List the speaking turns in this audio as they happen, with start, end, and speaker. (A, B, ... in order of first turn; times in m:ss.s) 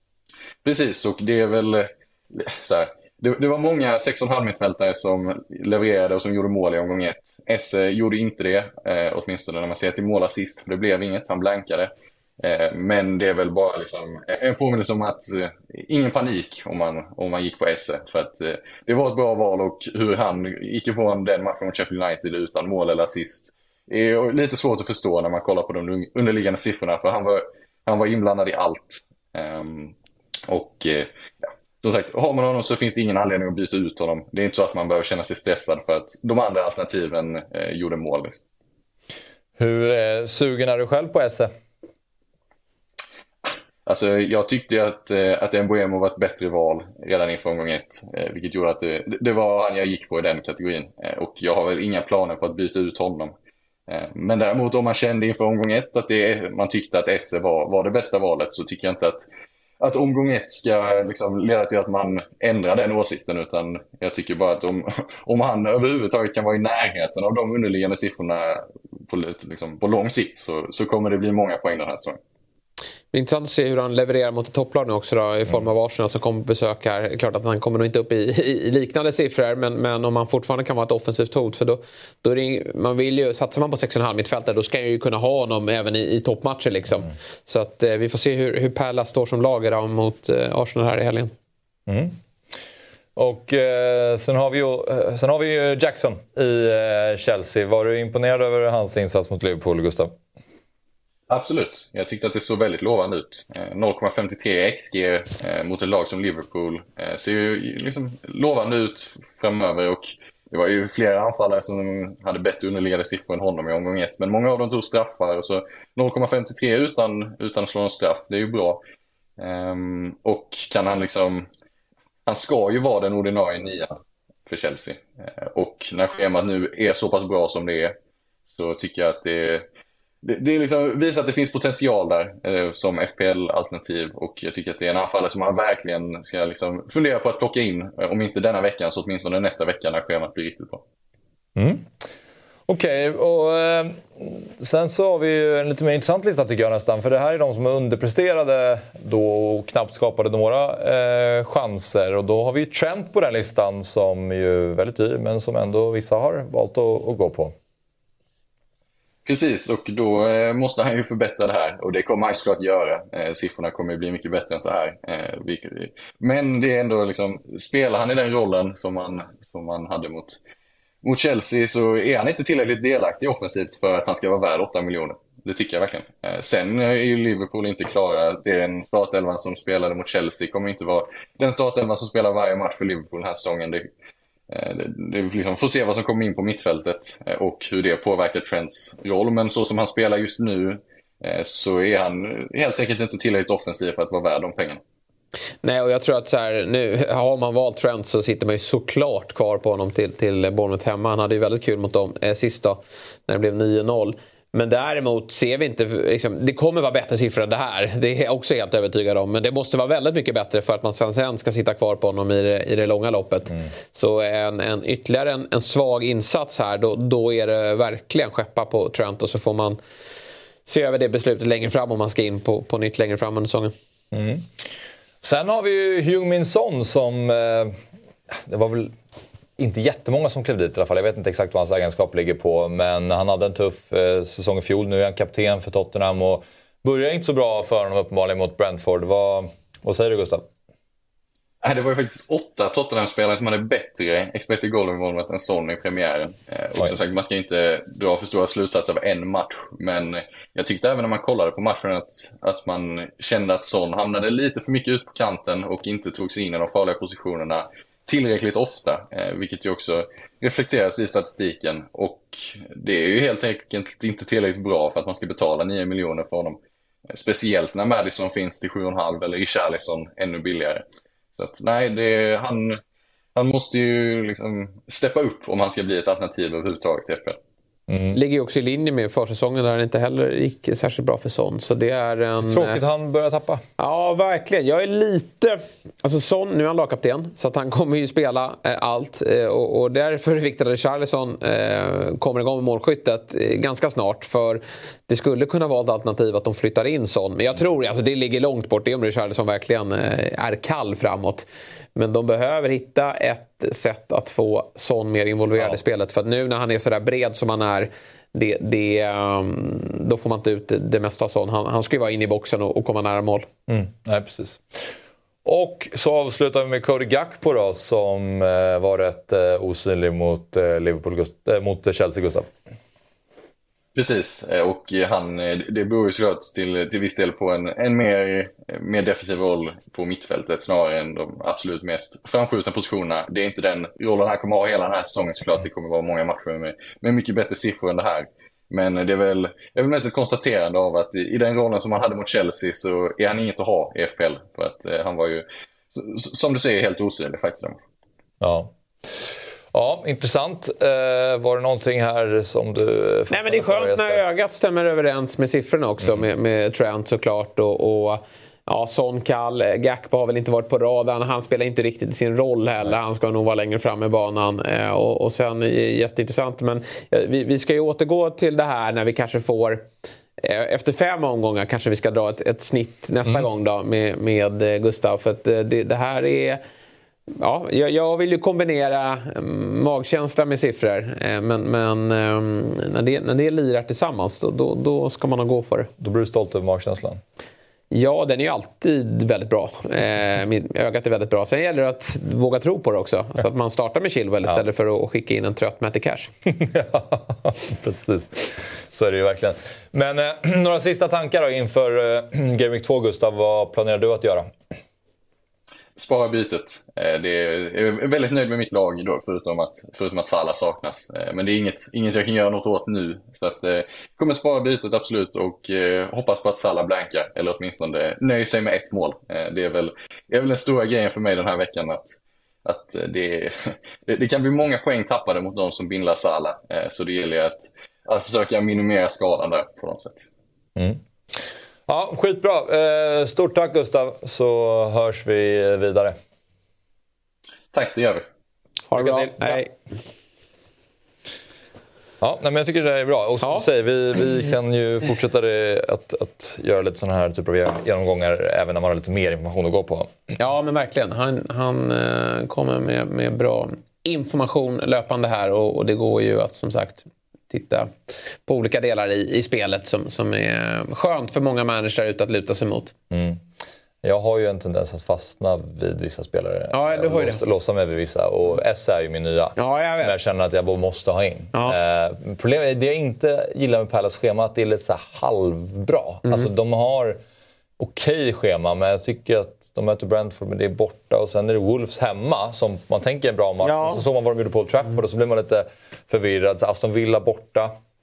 0:00.6-0:30.0 A
0:30.5-0:31.1 A
0:31.8-0:38.4 A
0:39.6-0:41.5 B
0:43.9-0:53.3 A
0:53.9-0:59.3 A
0:59.8-1:12.2 A
1:13.1-1:31.3 C
1:31.9-1:32.2 B
1:33.2-1:40.2 B
1:41.3-1:58.8 A
1:59.4-2:01.5 A
2:02.3-2:08.0 A
2:08.5-2:09.6 A
2:10.2-2:20.8 A
2:21.6-2:22.0 B
2:22.7-2:37.6 B
2:39.2-2:50.4 A
2:51.0-3:03.9 A
3:04.5-3:14.8 A
3:15.6-3:39.8 C
3:40.7-3:43.7 C
3:44.1-3:44.7 B
3:45.2-3:47.8 B
3:48.3-3:49.0 B
3:49.6-4:00.5 B
4:01.6-4:26.6 A
4:27.1-4:32.8 A
4:33.4-4:37.4 A
4:37.9-4:38.2 B
4:38.1-4:42.8 C
4:42.4-4:43.6 B
4:43.8-5:13.5 C
5:13.7-5:14.9 B
5:15.4-5:22.5 B
5:24.0-5:47.8 A
5:48.4-5:54.2 B
5:53.3-6:09.9 C
6:10.4-6:16.6 C
6:17.3-6:25.9 C
6:26.0-6:27.2 B
6:27.9-6:36.3 C
6:36.5-6:44.6 B
6:46.0-7:10.3 A
7:11.9-7:16.2 B
7:17.7-7:18.3 A
7:18.9-7:19.7 C
7:18.9-7:19.6 B
7:22.2-7:30.1 B
7:30.4-7:37.9 C
7:38.5-7:42.9 C
7:43.1-7:43.4 B
7:44.0-7:57.2 B
7:46.7-7:47.4 C
7:49.6-7:50.2 C
7:57.8-8:07.8 B
8:03.6-8:04.0 C